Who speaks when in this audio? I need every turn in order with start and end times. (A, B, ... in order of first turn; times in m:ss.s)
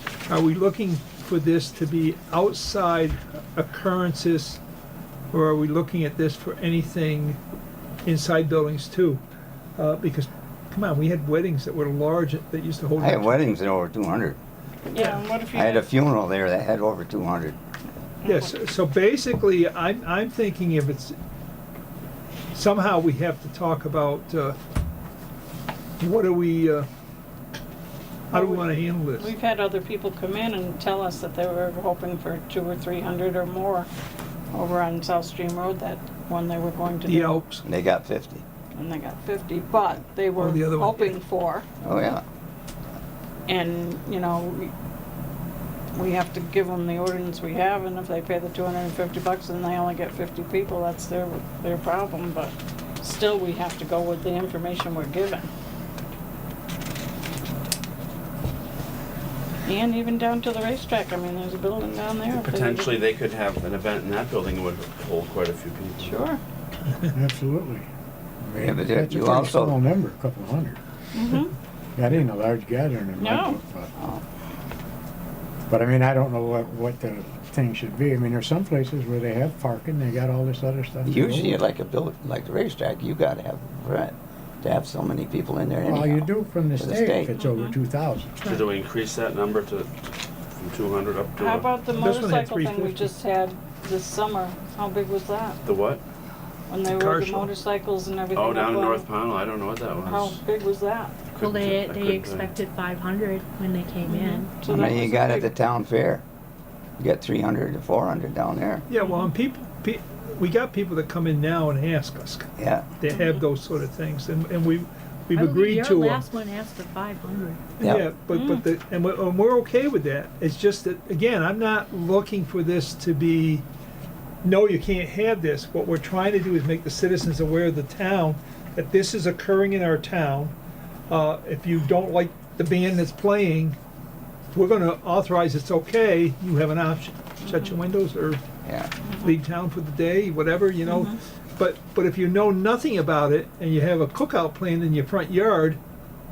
0:00.3-0:04.6 A
0:05.3-0:07.4 A
0:08.0-0:09.2 A
0:09.8-0:13.4 A
0:13.0-0:14.4 B
0:14.9-0:15.9 C
0:15.5-0:17.6 B
0:18.2-0:18.5 C
0:18.2-0:21.2 A
0:22.5-0:24.6 A
0:26.0-0:26.9 A
0:28.3-0:29.3 A
0:28.3-0:33.9 C
0:34.5-0:37.4 C
0:37.0-0:37.6 A
0:37.6-0:38.4 B
0:38.7-0:41.7 C
0:40.4-0:41.2 A
0:41.8-0:42.2 B
0:43.5-0:44.7 C
0:45.9-0:55.5 C
0:59.6-1:03.0 C
1:02.3-1:06.2 D
1:06.0-1:06.4 C
1:07.0-1:07.8 E
1:08.4-1:10.8 E
1:08.6-1:09.8 B
1:11.1-1:11.5 C
1:12.0-1:13.9 E
1:13.2-1:14.2 C
1:15.7-1:21.6 E
1:21.0-1:27.3 B
1:25.8-1:28.6 E
1:27.3-1:27.8 C
1:28.4-1:29.9 D
1:30.5-1:31.7 D
1:31.4-1:35.6 C
1:31.9-1:33.2 A
1:35.6-1:36.0 D
1:36.7-1:39.1 C
1:36.9-1:37.5 A
1:38.3-1:40.4 D
1:40.0-1:41.2 C
1:41.3-1:42.5 D
1:41.4-1:44.5 F
1:44.0-1:45.5 C
1:44.6-1:46.2 B
1:47.0-1:48.8 B
1:48.9-1:56.2 A
1:49.0-1:49.3 F
1:52.6-1:52.9 B
1:55.3-1:57.6 F
1:57.8-1:58.0 B
1:57.8-2:03.6 A
1:58.3-1:58.6 C
2:04.4-2:10.5 A
2:11.1-2:13.8 A
2:14.5-2:18.4 A
2:18.6-2:18.9 B
2:19.0-2:19.4 C
2:19.2-2:25.8 A
2:20.8-2:21.2 C